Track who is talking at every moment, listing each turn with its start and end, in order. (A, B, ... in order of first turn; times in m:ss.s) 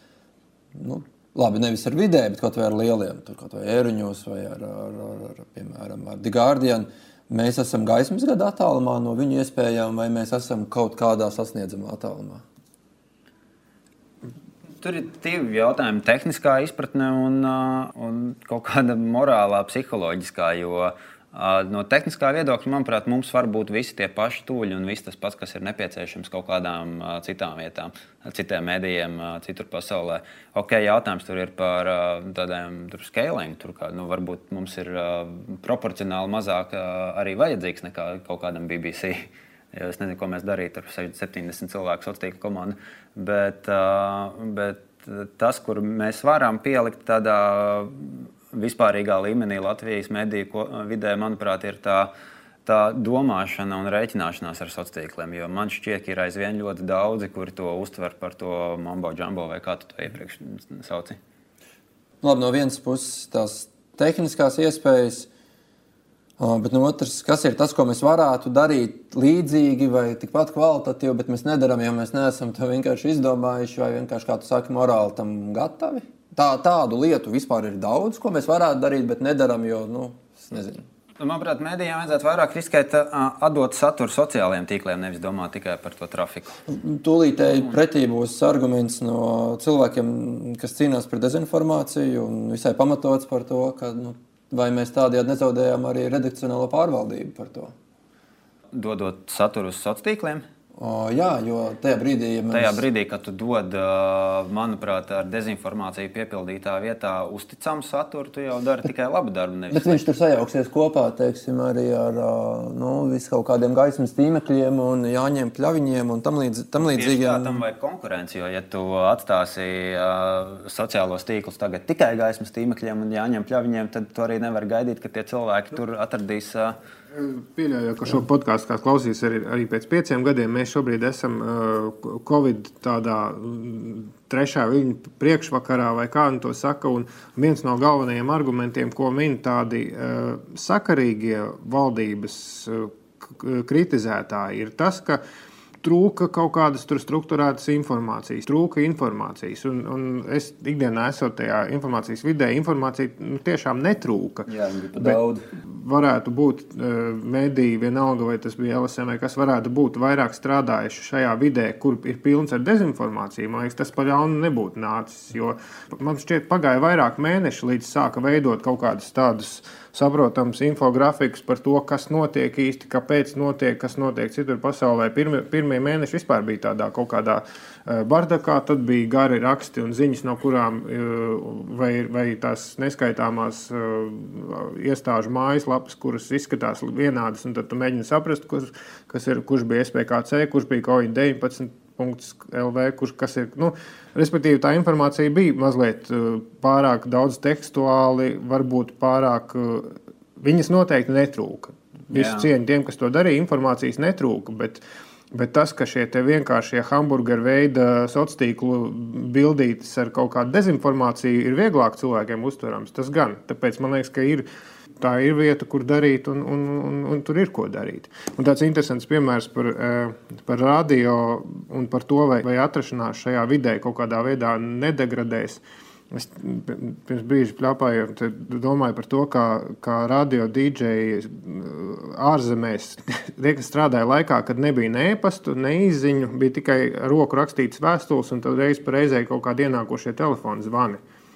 0:00.7-0:12.4 A
0:14.8-0:52.1 B
0:52.6-1:01.2 B
1:02.2-1:05.3 A
1:06.4-1:20.8 A
1:21.2-1:26.6 B
1:26.7-1:37.7 A
1:38.7-1:40.4 B
1:40.8-1:42.8 A
1:42.5-1:50.0 B
1:49.7-1:57.6 A
1:56.8-2:06.8 B
2:07.1-2:25.2 C
2:25.8-3:24.8 C
2:34.5-2:35.4 B
3:22.1-3:22.5 B
3:25.3-3:34.4 C
3:35.0-4:01.0 C